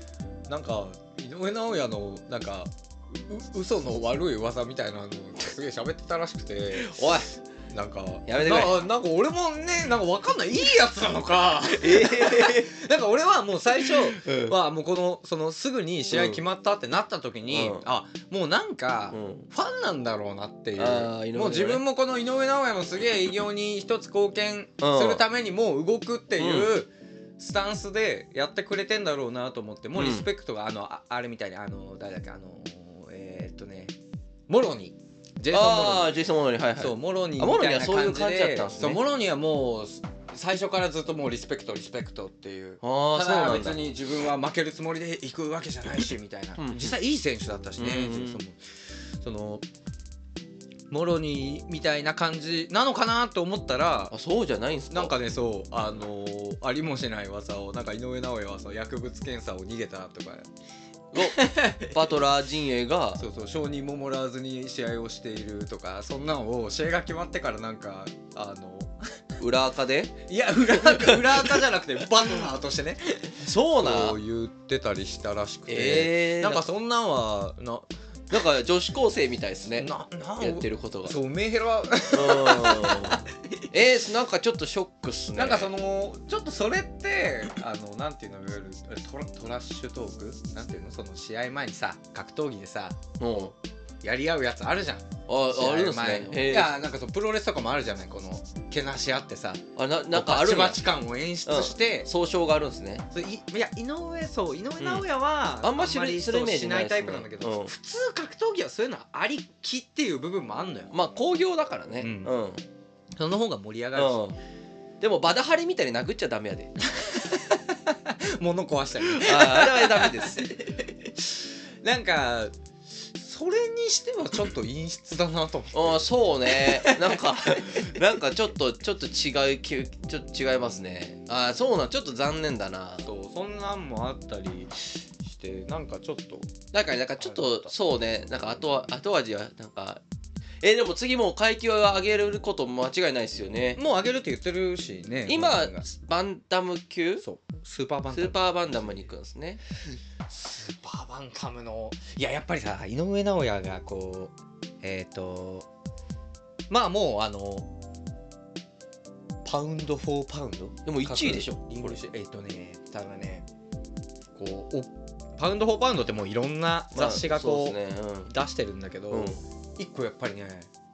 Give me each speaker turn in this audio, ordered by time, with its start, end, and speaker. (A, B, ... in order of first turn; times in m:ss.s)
0:00.5-0:34.0 A
0:06.8-0:07.3 B
0:08.3-0:08.8 B
0:11.8-0:12.7 B
0:14.1-0:14.6 B
0:16.1-0:16.4 B
0:17.5-0:17.8 B
0:19.1-0:19.5 B
0:20.8-0:21.8 B
0:24.8-0:25.2 B
0:26.4-0:26.7 B
0:29.9-0:30.3 B
0:34.5-0:36.1 A
0:35.5-0:39.0 B
0:36.8-0:48.6 A
0:42.8-0:43.8 B
0:46.6-0:46.9 B
0:47.8-0:48.4 B
0:49.2-0:49.6 A
0:50.9-0:54.1 A
0:54.1-0:55.1 B
0:54.9-1:00.5 A
1:01.1-1:03.2 B
1:01.2-1:02.1 A
1:03.2-1:09.0 A
1:09.4-1:10.2 B
1:10.3-1:17.9 A
1:10.7-1:11.6 B
1:13.4-1:14.2 B
1:15.7-1:16.6 B
1:18.3-1:21.2 B
1:19.8-1:23.3 A
1:22.1-1:25.7 B
1:25.4-1:33.0 A
1:33.2-1:33.5 B
1:34.0-1:42.1 A
1:35.3-1:36.7 B
1:39.8-1:40.8 B
1:41.4-1:43.0 B
1:43.1-1:50.9 A
1:44.8-1:45.0 B
1:45.6-1:47.7 B
1:50.9-1:52.6 B
1:52.0-1:52.3 A
1:53.1-1:54.2 A
1:54.0-1:54.4 B
1:55.0-1:56.7 B
1:56.8-2:08.0 A
1:59.1-2:00.5 B
2:05.7-2:13.1 B
2:13.0-2:16.5 A
2:16.7-2:20.0 B
2:17.2-2:17.7 A
2:20.6-2:23.8 B
2:23.8-2:25.8 A
2:25.3-2:27.2 B
2:27.2-2:29.1 A
2:28.1-2:29.6 B
2:30.3-2:35.7 A
2:36.7-2:37.7 A
2:39.4-2:43.5 A
2:40.8-2:42.0 B
2:44.3-2:47.8 A
2:46.9-2:48.3 B
2:48.3-2:50.7 A
2:49.1-2:49.4 B